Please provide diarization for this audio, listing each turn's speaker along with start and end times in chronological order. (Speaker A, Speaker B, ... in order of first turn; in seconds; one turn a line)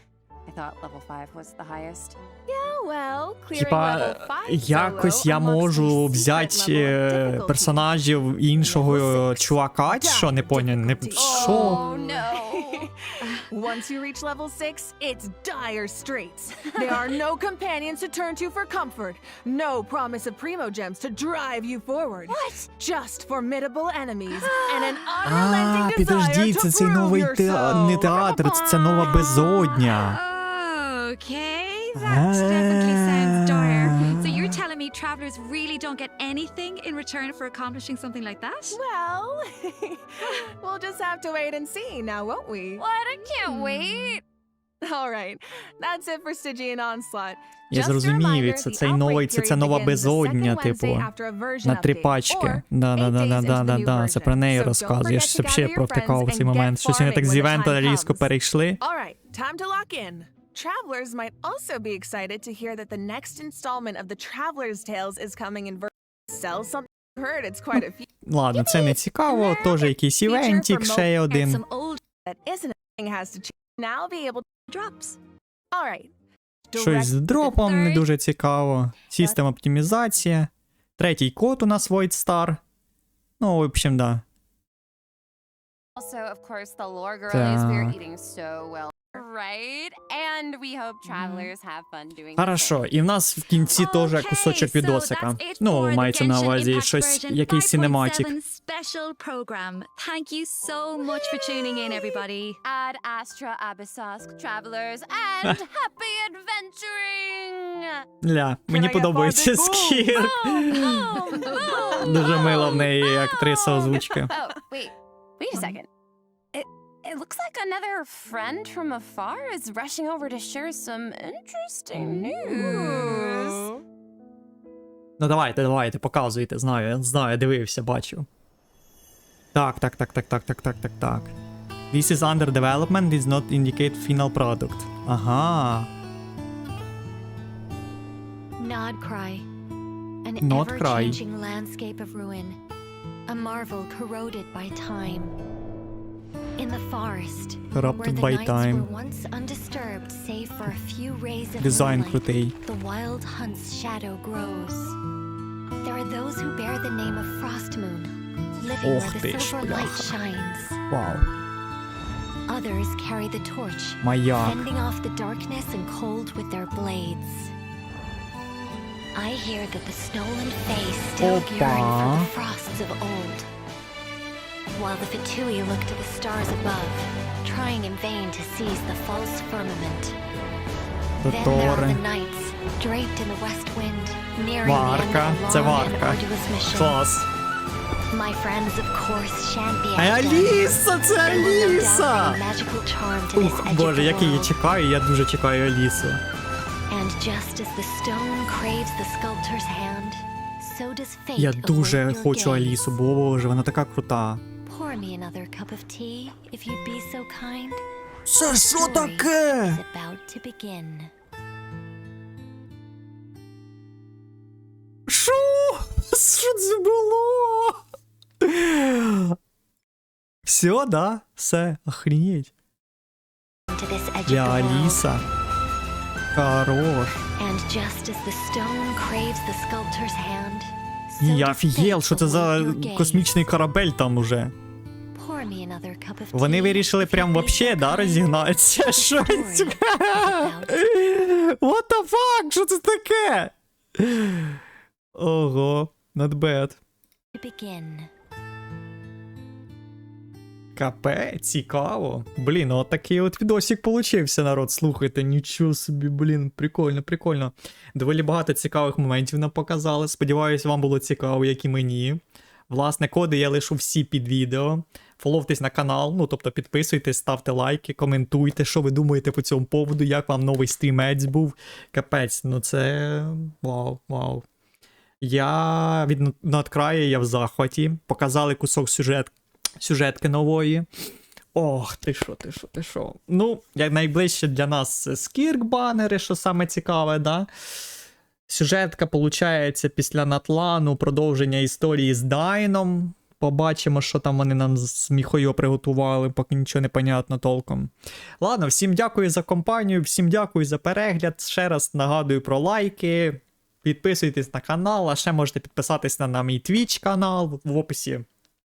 Speaker A: 0.5-2.2
Speaker B: 2.5-7.8
Speaker C: 3.5-11.8
Speaker B: 8.6-28.2
Speaker A: 11.1-12.9
Speaker A: 16.7-17.1
Speaker A: 22.3-22.7
Speaker C: 25.2-30.1
Speaker A: 28.1-29.6
Speaker D: 29.2-38.8
Speaker C: 31.9-34.6
Speaker B: 38.7-44.2
Speaker A: 42.8-44.2
Speaker B: 44.8-58.2
Speaker C: 47.7-51.1
Speaker C: 51.6-58.8
Speaker B: 58.8-68.1
Speaker C: 68.2-71.6
Speaker B: 68.6-71.1
Speaker D: 71.3-72.0
Speaker B: 72.2-74.5
Speaker D: 74.7-75.2
Speaker B: 75.7-76.1
Speaker B: 76.7-77.6
Speaker C: 76.8-82.6
Speaker D: 77.5-78.0
Speaker C: 83.4-84.2
Speaker A: 86.0-92.8
Speaker C: 87.3-87.9
Speaker C: 92.4-98.3
Speaker D: 93.7-102.6
Speaker A: 101.0-108.0
Speaker C: 108.2-111.1
Speaker B: 108.7-112.6
Speaker A: 110.1-115.9
Speaker C: 112.0-114.3
Speaker A: 116.5-123.7
Speaker B: 122.0-123.8
Speaker C: 125.2-128.3
Speaker C: 129.5-131.3
Speaker C: 131.9-135.9
Speaker E: 138.6-139.5
Speaker E: 140.2-142.6
Speaker C: 140.4-141.2
Speaker E: 143.3-145.3
Speaker E: 146.6-155.0
Speaker C: 147.7-148.9
Speaker C: 151.6-152.5
Speaker E: 155.8-160.8
Speaker C: 158.8-160.2
Speaker C: 160.9-161.3
Speaker E: 162.5-167.5
Speaker C: 164.0-164.7
Speaker E: 169.1-173.5
Speaker C: 171.2-172.3
Speaker E: 174.7-180.2
Speaker C: 181.2-182.0
Speaker E: 181.2-187.0
Speaker C: 184.6-187.3
Speaker E: 188.1-194.6
Speaker C: 189.9-192.4
Speaker C: 193.3-196.2
Speaker E: 196.9-203.0
Speaker C: 201.4-204.4
Speaker E: 204.6-207.8
Speaker C: 208.3-209.8
Speaker E: 208.4-211.1
Speaker C: 215.1-217.8
Speaker C: 218.4-219.4
Speaker C: 220.4-222.5
Speaker E: 223.7-225.1
Speaker C: 224.3-225.2
Speaker C: 226.3-227.2
Speaker E: 227.3-233.5
Speaker C: 231.2-234.5
Speaker E: 235.1-240.9
Speaker C: 236.3-244.6
Speaker C: 245.1-246.8
Speaker E: 247.3-248.1
Speaker C: 250.8-274.4
Speaker C: 275.2-280.9
Speaker C: 281.5-287.5
Speaker C: 288.5-308.2